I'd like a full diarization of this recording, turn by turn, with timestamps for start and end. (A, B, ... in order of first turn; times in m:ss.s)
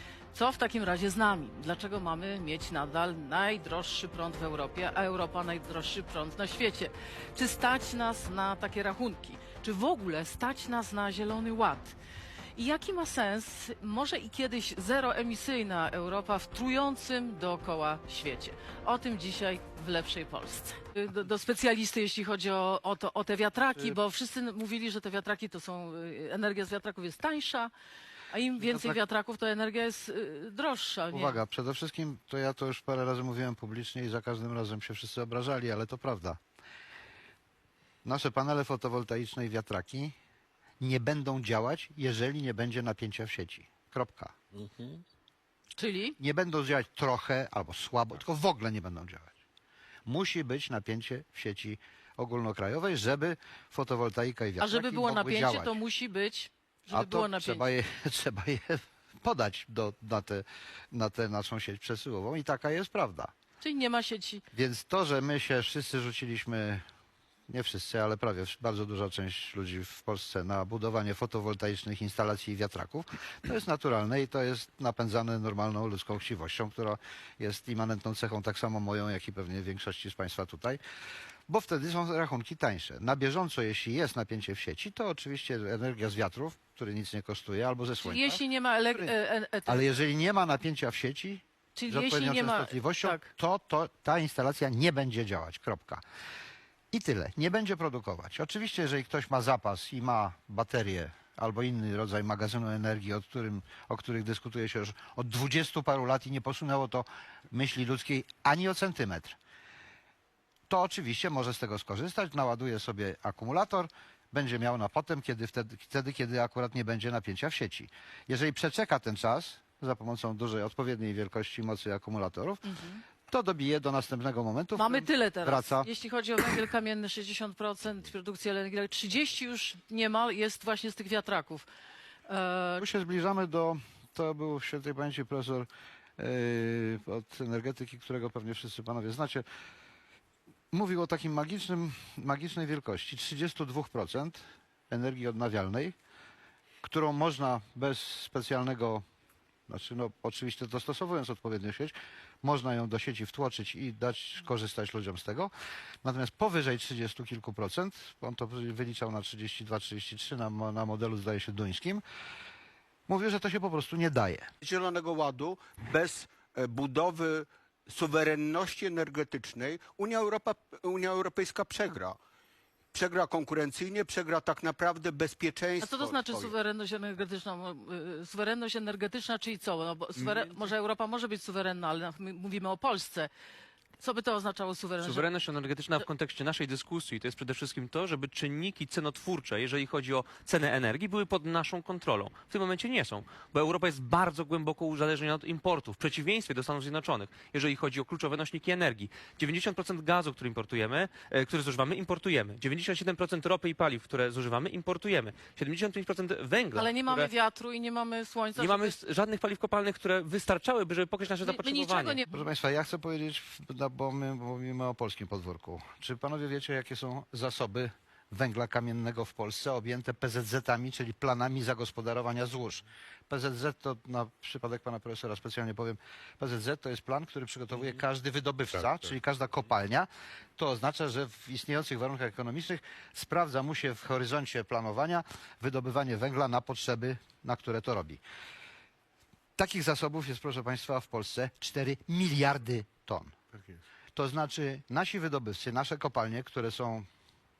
0:00.3-0:12.0 A
0:12.6-0:27.7 A
0:28.3-0:31.4 A
0:28.6-0:29.0 B
0:31.1-0:36.4 B
0:38.0-0:40.1 B
0:40.8-0:44.4 B
0:45.8-0:46.2 A
0:46.2-0:49.3 B
0:50.1-0:55.8 B
0:54.6-0:57.6 A
0:56.9-1:03.3 B
1:03.6-1:04.4 A
1:04.5-1:06.8 B
1:07.5-1:20.8 B
1:21.5-1:29.2 B
1:28.0-1:29.9 A
1:29.7-1:36.0 B
1:31.8-1:33.3 A
1:36.9-1:49.4 B
1:50.7-2:02.6 B
2:02.7-2:03.0 A
2:03.3-2:05.9 B
2:04.8-2:11.7 A
2:12.3-2:12.9 A
2:12.8-2:19.5 B
2:20.7-2:26.0 B
2:26.8-2:29.0 B
2:29.7-2:35.5 B
2:36.0-2:42.0 B
2:43.1-2:44.5 B
2:44.6-2:52.2 C
2:52.9-2:56.5 C
2:55.8-3:03.3 A
3:04.0-3:05.3 A
3:05.0-3:27.3 D
3:26.7-3:29.0 A
3:28.6-3:32.2 D
3:31.4-3:32.3 A
3:32.3-3:58.2 B
3:59.6-4:03.4 B
4:04.2-4:07.1 B